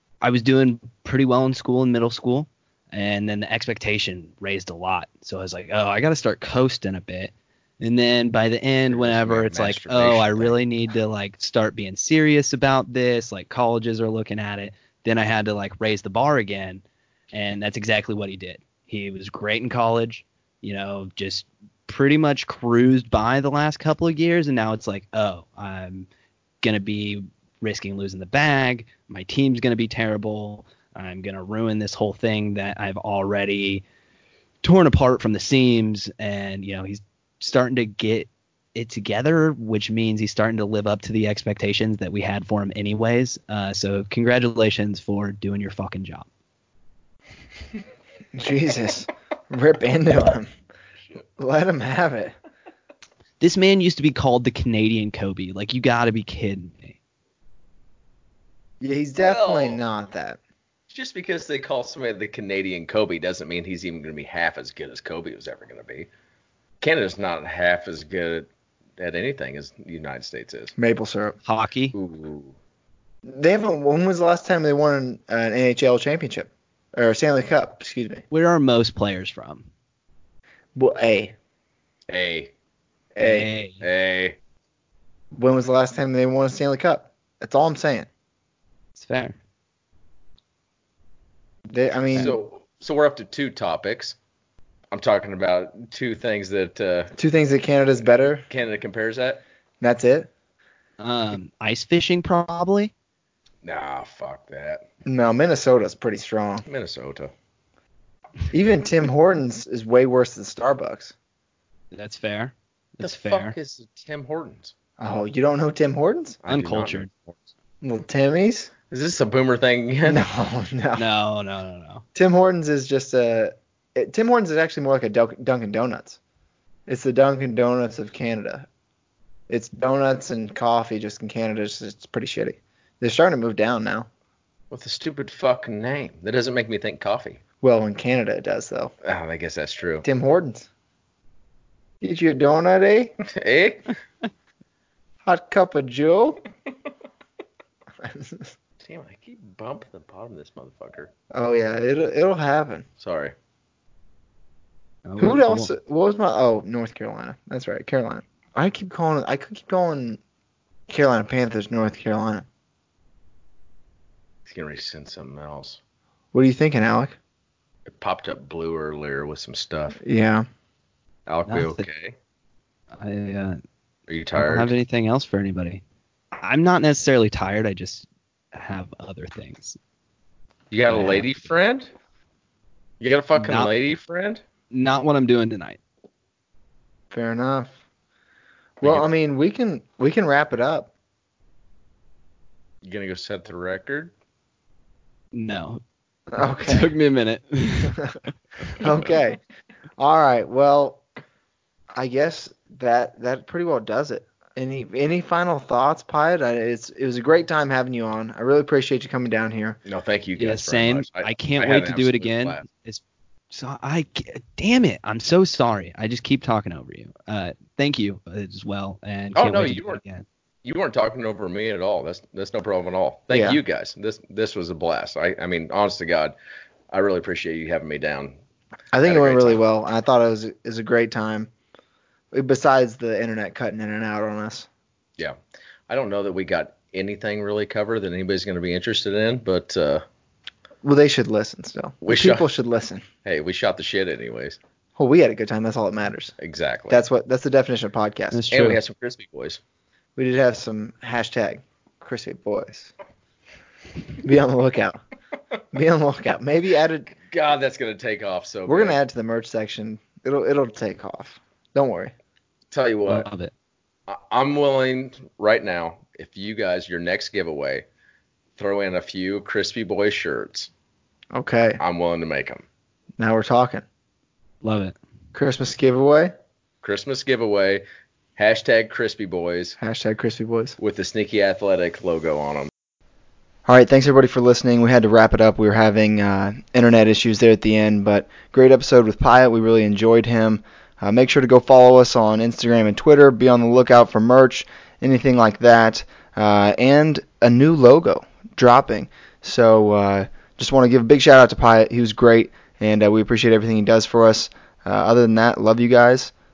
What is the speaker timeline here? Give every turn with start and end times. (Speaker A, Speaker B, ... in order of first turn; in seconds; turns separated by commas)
Speaker A: 0.2-26.1, Speaker B: 8.9-10.6, Speaker A: 26.6-33.8, Speaker A: 34.6-46.3, Speaker C: 48.3-50.5, Speaker C: 51.4-52.3, Speaker A: 53.4-57.0, Speaker C: 58.8-60.4, Speaker B: 59.2-59.8, Speaker B: 60.9-66.1, Speaker B: 66.8-70.7, Speaker C: 70.8-71.4, Speaker A: 71.4-71.9, Speaker B: 71.9-72.5, Speaker C: 73.2-78.2, Speaker A: 78.3-79.6, Speaker C: 80.8-81.3, Speaker B: 82.1-82.5, Speaker C: 83.2-83.5, Speaker A: 83.2-83.8, Speaker B: 83.8-84.4, Speaker C: 85.3-88.1, Speaker A: 89.0-89.3, Speaker C: 91.7-92.3, Speaker B: 92.2-94.2, Speaker B: 94.9-97.1, Speaker C: 97.2-98.5, Speaker B: 98.5-99.4, Speaker C: 99.8-100.3, Speaker A: 101.0-102.9, Speaker B: 103.6-104.8, Speaker C: 105.0-106.6, Speaker B: 106.7-107.3, Speaker C: 108.5-111.1, Speaker A: 111.9-113.5, Speaker B: 113.0-114.7, Speaker C: 115.0-116.4, Speaker B: 116.4-117.4, Speaker A: 116.5-117.1, Speaker C: 117.8-118.7, Speaker B: 118.9-120.2, Speaker C: 120.0-121.0, Speaker A: 121.0-122.0, Speaker C: 122.1-126.2, Speaker C: 126.9-128.7, Speaker C: 129.5-134.1, Speaker B: 134.7-137.4, Speaker C: 137.6-138.9, Speaker B: 139.0-140.1, Speaker C: 140.0-140.7, Speaker C: 142.0-143.2, Speaker B: 143.2-143.9, Speaker C: 145.2-146.4, Speaker C: 148.0-148.5, Speaker B: 148.8-151.1, Speaker C: 151.3-152.8, Speaker B: 153.0-153.3, Speaker A: 155.1-155.7, Speaker C: 155.2-160.2, Speaker C: 160.9-162.4, Speaker B: 164.5-165.8, Speaker C: 166.3-167.2, Speaker B: 167.8-170.0, Speaker C: 170.0-170.4, Speaker B: 171.3-172.2, Speaker A: 171.5-171.8, Speaker A: 172.9-173.6, Speaker B: 174.1-174.7, Speaker A: 174.3-175.8, Speaker A: 176.4-179.8, Speaker B: 180.7-181.9, Speaker A: 180.9-181.3, Speaker B: 183.0-184.4, Speaker A: 183.3-183.7, Speaker A: 184.7-185.8, Speaker C: 187.1-187.7, Speaker C: 188.8-190.9, Speaker B: 192.8-194.1, Speaker A: 195.3-195.8, Speaker C: 196.3-196.9, Speaker A: 196.4-198.0, Speaker C: 198.8-199.4, Speaker C: 200.0-201.0, Speaker C: 201.9-209.8, Speaker B: 209.8-212.6, Speaker A: 210.4-220.2, Speaker B: 219.3-220.0, Speaker B: 220.6-226.3, Speaker C: 223.3-223.6, Speaker B: 226.9-228.4, Speaker C: 228.9-231.5, Speaker B: 229.0-229.6, Speaker C: 232.3-234.7, Speaker B: 235.9-240.0, Speaker C: 240.8-243.0, Speaker B: 242.0-242.5, Speaker B: 243.2-244.6, Speaker C: 245.0-246.3, Speaker B: 246.4-247.0, Speaker C: 246.9-248.4, Speaker A: 248.3-248.8, Speaker B: 248.5-249.6, Speaker C: 250.2-252.9, Speaker C: 254.2-255.0, Speaker C: 255.7-257.1, Speaker B: 257.2-259.0, Speaker C: 258.7-262.1, Speaker B: 262.7-263.3, Speaker A: 263.1-263.5, Speaker B: 264.1-267.8, Speaker B: 268.6-270.7, Speaker C: 271.3-271.8, Speaker B: 271.8-272.6, Speaker C: 273.2-273.8, Speaker A: 274.6-274.9, Speaker C: 275.3-276.3, Speaker B: 276.8-277.8, Speaker B: 278.4-279.8, Speaker C: 279.8-280.8, Speaker B: 280.8-282.7, Speaker C: 283.6-306.3